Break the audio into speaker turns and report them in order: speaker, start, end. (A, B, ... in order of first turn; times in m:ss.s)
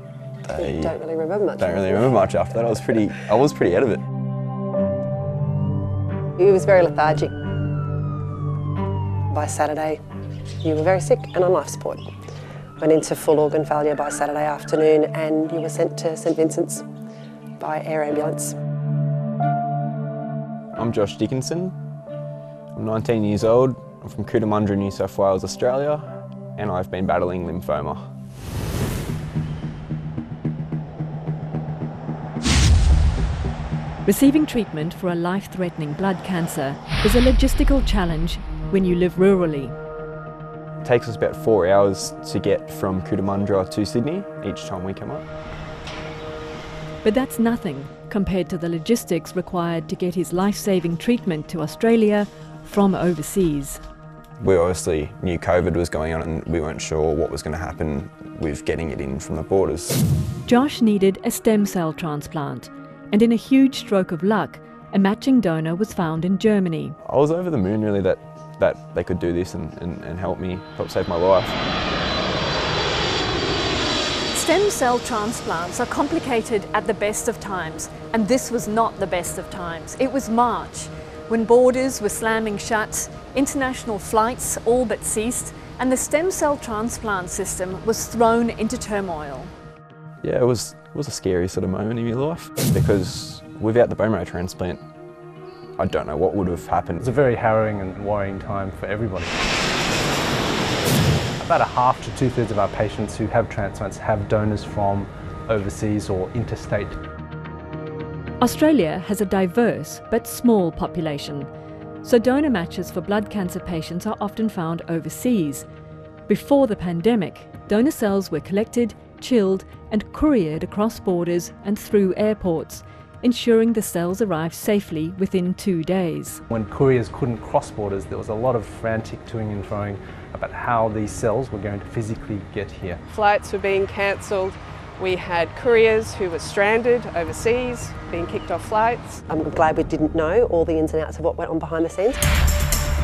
0:00.4-0:01.0 A
0:00.5-0:02.2 B
0:01.5-0:04.0 A
0:06.4-0:07.4 B
0:09.3-0:10.0 B
0:10.6-0:12.0 B
0:12.8-0:16.8 B
0:17.6-0:18.5 B
0:20.8-0:21.7 A
0:22.7-0:28.0 A
0:34.0-0:39.7 C
0:40.8-0:45.2 A
0:47.0-0:53.8 C
0:54.4-1:00.0 A
1:00.4-1:07.0 C
1:07.0-1:11.6 A
1:14.3-1:29.5 C
1:30.2-1:34.8 A
1:35.8-1:37.1 A
1:37.0-1:39.4 D
1:41.4-1:47.0 D
1:48.4-1:51.5 C
1:52.0-1:55.6 C
1:56.3-2:06.4 C
2:06.5-2:13.0 D
2:13.1-2:19.3 E
2:19.3-2:22.2 B